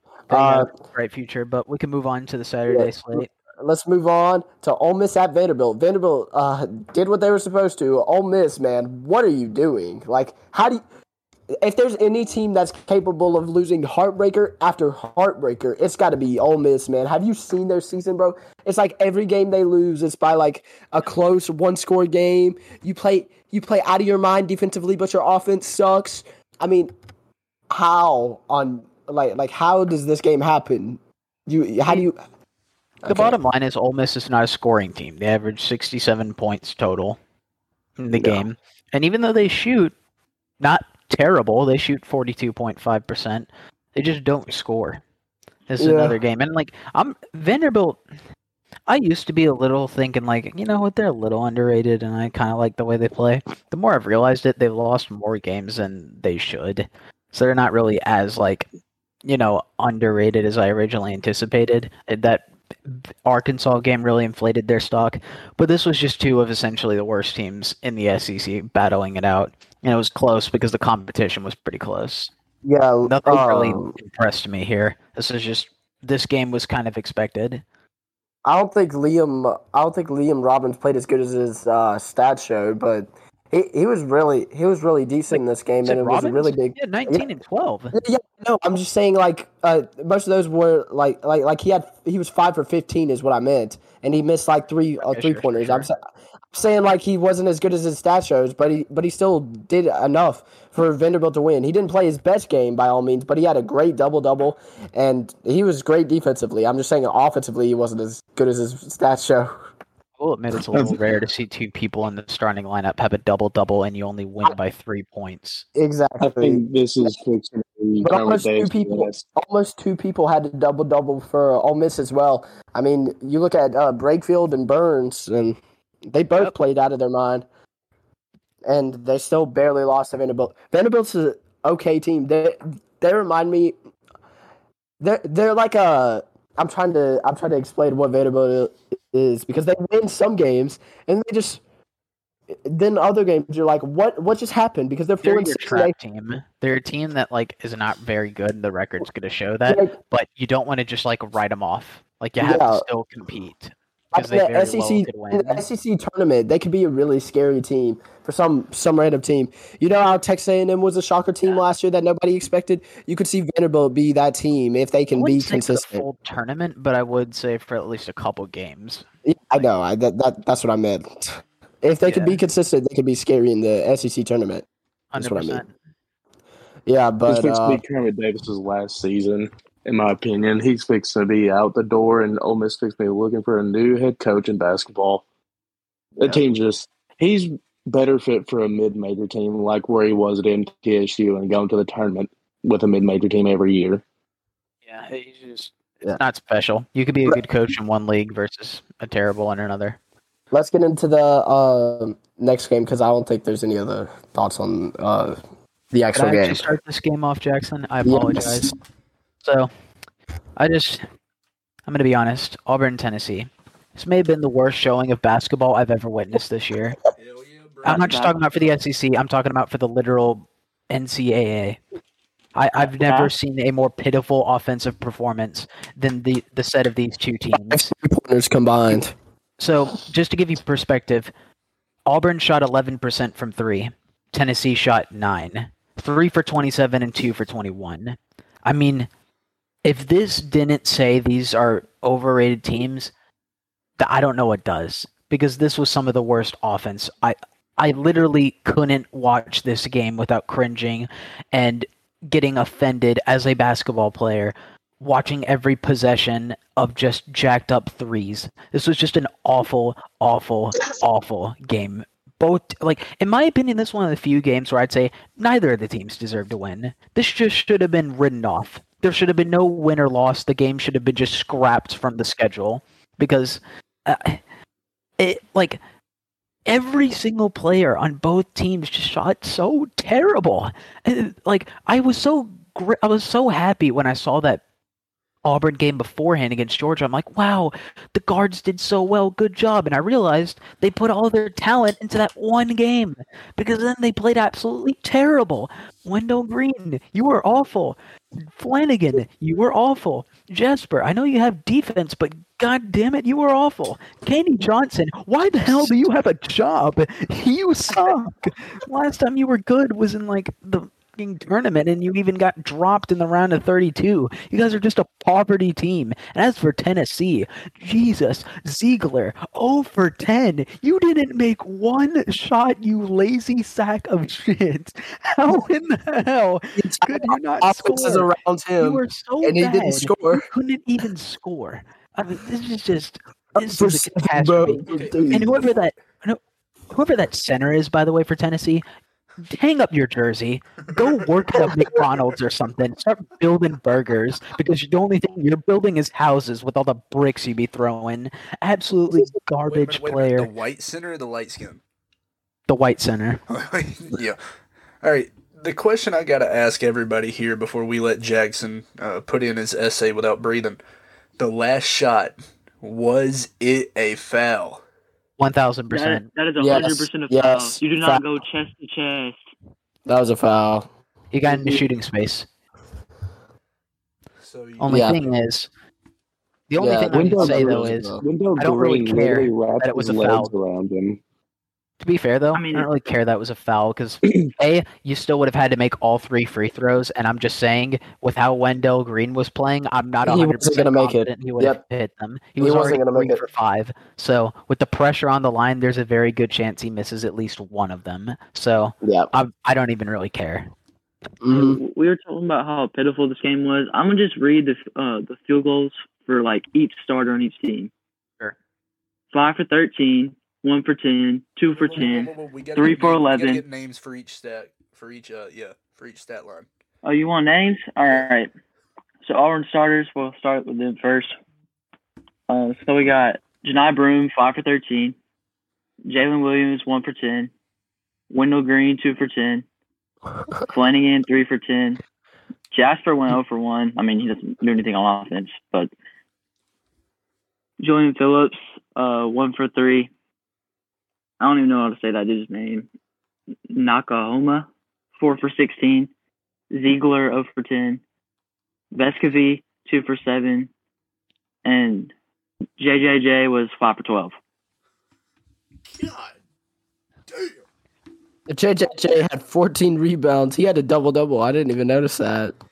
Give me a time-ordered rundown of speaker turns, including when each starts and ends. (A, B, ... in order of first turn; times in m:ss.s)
0:00.3-0:00.7 A
0:00.3-0:03.3 B
0:02.7-0:10.8 A
0:11.6-0:26.9 A
0:27.7-0:32.2 A
0:33.0-0:33.4 A
0:33.1-0:37.2 B
0:38.0-0:39.9 B
0:38.1-0:38.4 A
0:40.6-0:45.0 B
0:45.7-0:48.0 B
0:45.8-0:46.2 A
0:48.9-0:58.7 B
0:59.2-1:12.3 B
1:12.6-1:14.0 A
1:13.0-1:17.6 B
1:18.4-1:27.2 A
1:25.3-1:28.0 B
1:27.9-1:36.0 A
1:35.0-1:35.9 B
1:36.5-1:49.5 A
1:50.2-1:55.6 B
1:50.7-1:51.0 C
1:55.8-1:56.6 A
1:56.2-1:59.2 C
1:58.0-2:07.4 A
2:08.7-2:13.7 A
2:15.0-2:21.6 A
2:22.6-2:25.9 A
2:25.2-2:35.6 B
2:29.7-2:29.9 A
2:32.4-2:32.8 A
2:34.1-2:46.0 A
2:45.2-2:49.7 B
2:49.3-2:54.7 A
2:52.0-2:52.4 B
2:55.1-2:55.7 B
2:55.2-2:55.6 A
2:56.9-2:57.8 A
2:57.3-3:05.2 C
3:06.2-3:14.0 C
3:14.9-3:20.0 B
3:20.5-3:25.4 A
3:25.9-3:26.6 A
3:26.2-3:28.7 B
3:28.1-3:28.7 A
3:29.4-3:29.7 B
3:30.6-3:31.1 B
3:31.9-3:37.0 B
3:37.2-3:38.3 D
3:37.8-3:41.8 B
3:37.9-3:38.3 E
3:42.6-3:47.9 B
3:42.9-3:43.3 E
3:47.7-3:49.1 A
3:49.6-3:51.3 B
3:52.1-3:59.1 B
3:59.8-4:03.1 B
4:04.0-4:34.4 B
4:35.2-4:35.8 B
4:36.7-4:44.6 B
4:45.4-4:58.0 B
4:58.6-5:28.3 B
5:05.7-5:05.9 A
5:26.8-5:30.4 A
5:28.8-5:36.4 B
5:33.6-5:35.7 A
5:34.6-5:35.5 C
5:34.9-5:35.4 D
5:36.9-5:38.8 B
5:39.4-5:50.5 B
5:40.8-5:41.7 D
5:49.7-5:51.8 D
5:52.7-5:53.4 B
5:53.5-5:54.4 D
5:55.0-6:00.8 D
6:01.4-6:04.8 D
6:05.4-6:06.3 B
6:05.9-6:09.4 E
6:06.6-6:08.2 A
6:10.1-6:10.9 A
6:11.3-6:12.5 B
6:11.4-6:11.8 A
6:14.4-6:15.3 D
6:14.8-6:15.7 B
6:14.9-6:15.2 A
6:16.7-6:20.5 B
6:16.8-6:18.2 A
6:17.1-6:21.2 C
6:22.0-6:40.7 B
6:22.5-6:22.9 E
6:24.3-6:24.5 C
6:30.2-6:31.8 A
6:32.6-6:33.5 A
6:39.0-6:39.3 A
6:41.4-6:41.8 A
6:41.5-6:47.9 E
6:49.3-6:53.6 E
6:51.6-6:56.7 D
6:57.0-6:58.5 E
6:59.2-7:01.4 E
7:02.5-7:05.2 E
7:06.1-7:07.5 E
7:08.3-7:09.6 E
7:10.7-7:12.0 E
7:12.7-7:15.9 E
7:17.8-7:20.1 E
7:21.4-7:22.9 E
7:23.7-7:26.1 E
7:26.7-7:28.0 E
7:28.9-7:30.7 E
7:31.6-7:32.1 E
7:32.8-7:34.4 E
7:35.9-7:36.4 D
7:37.3-7:37.6 D
7:38.5-7:42.5 A